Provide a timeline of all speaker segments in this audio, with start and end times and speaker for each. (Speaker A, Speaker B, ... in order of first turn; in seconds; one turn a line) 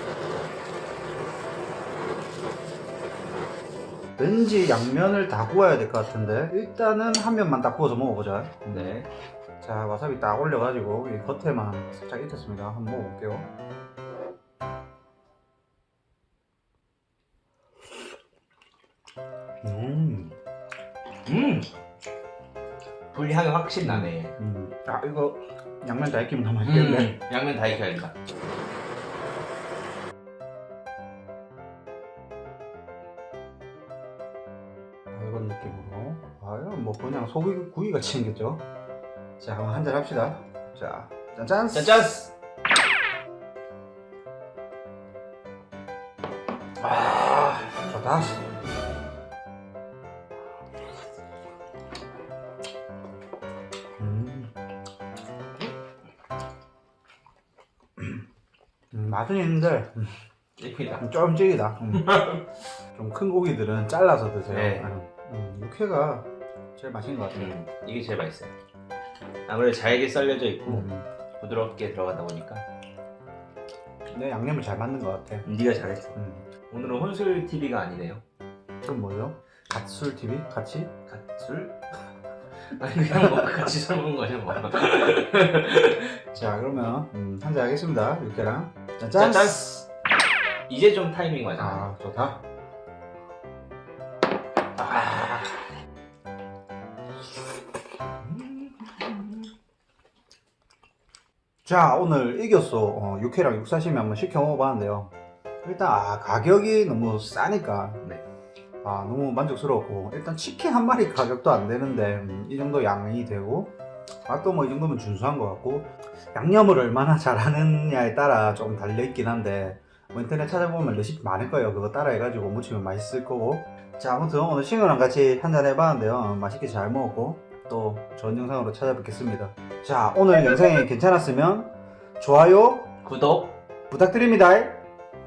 Speaker A: 4.2-9.0
Speaker B: 8.7-9.1
Speaker A: 9.6-13.5
Speaker A: 19.6-20.3
Speaker B: 21.2-21.7
Speaker B: 23.1-24.4
Speaker A: 23.8-27.1
Speaker B: 26.6-28.2
Speaker A: 35.1-38.6
Speaker A: 39.4-42.1
Speaker B: 41.7-42.3
Speaker B: 46.8-47.7
Speaker A: 47.9-48.4
Speaker A: 54.0-54.5
Speaker A: 58.0-58.2
Speaker A: 58.9-60.2
Speaker B: 60.6-61.1
Speaker A: 61.0-62.1
Speaker B: 61.9-62.4
Speaker A: 62.9-67.5
Speaker B: 64.5-64.9
Speaker B: 67.3-68.5
Speaker B: 69.5-72.6
Speaker A: 70.7-71.1
Speaker A: 74.1-75.5
Speaker B: 75.4-76.2
Speaker A: 76.1-76.5
Speaker B: 76.7-78.2
Speaker A: 78.8-80.9
Speaker B: 81.1-81.8
Speaker B: 82.7-86.2
Speaker A: 86.3-89.6
Speaker B: 89.2-89.8
Speaker B: 90.7-91.9
Speaker A: 91.5-92.4
Speaker B: 94.8-95.5
Speaker B: 98.2-99.5
Speaker A: 101.6-108.0
Speaker A: 108.8-113.7
Speaker A: 114.3-132.9
Speaker B: 133.0-133.6
Speaker A: 133.9-134.8